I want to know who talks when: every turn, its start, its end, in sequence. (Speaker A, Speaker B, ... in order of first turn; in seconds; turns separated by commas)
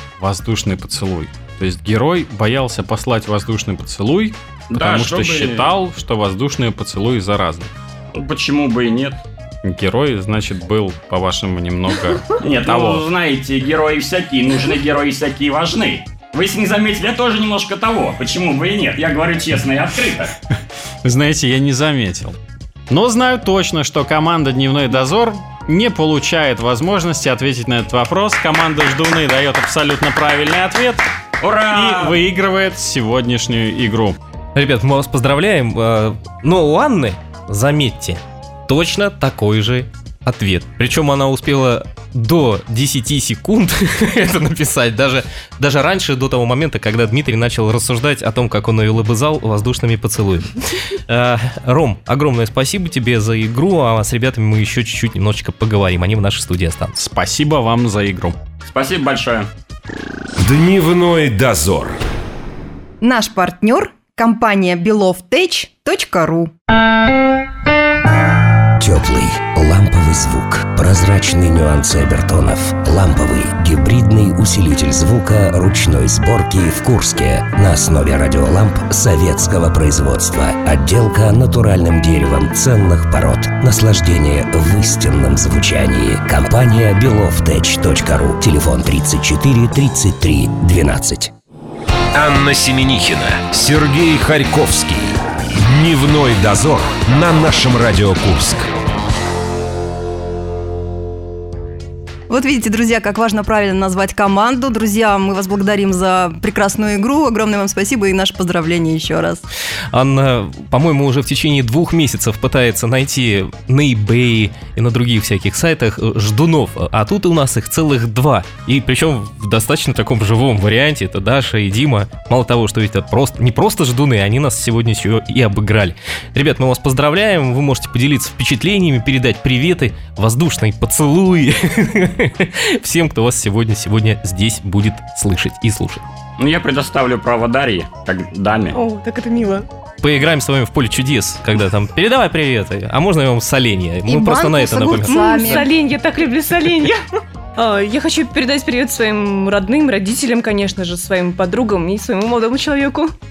Speaker A: 0.2-7.7, Speaker B: 4.7-5.7, Speaker B: 8.1-9.2, Speaker A: 9.6-13.1, Speaker B: 12.4-20.3, Speaker A: 21.0-22.4, Speaker A: 22.9-31.1, Speaker B: 31.4-32.2, Speaker A: 31.7-34.2, Speaker C: 34.5-57.0, Speaker A: 57.0-58.4, Speaker B: 58.6-59.5, Speaker D: 60.4-62.0, Speaker E: 63.0-66.5, Speaker F: 68.8-91.3, Speaker D: 92.1-98.7, Speaker E: 102.3-109.4, Speaker C: 109.9-136.0, Speaker B: 136.4-138.8, Speaker G: 138.7-139.7, Speaker C: 140.0-145.7, Speaker E: 144.1-145.7, Speaker G: 145.0-147.0, Speaker G: 147.6-153.1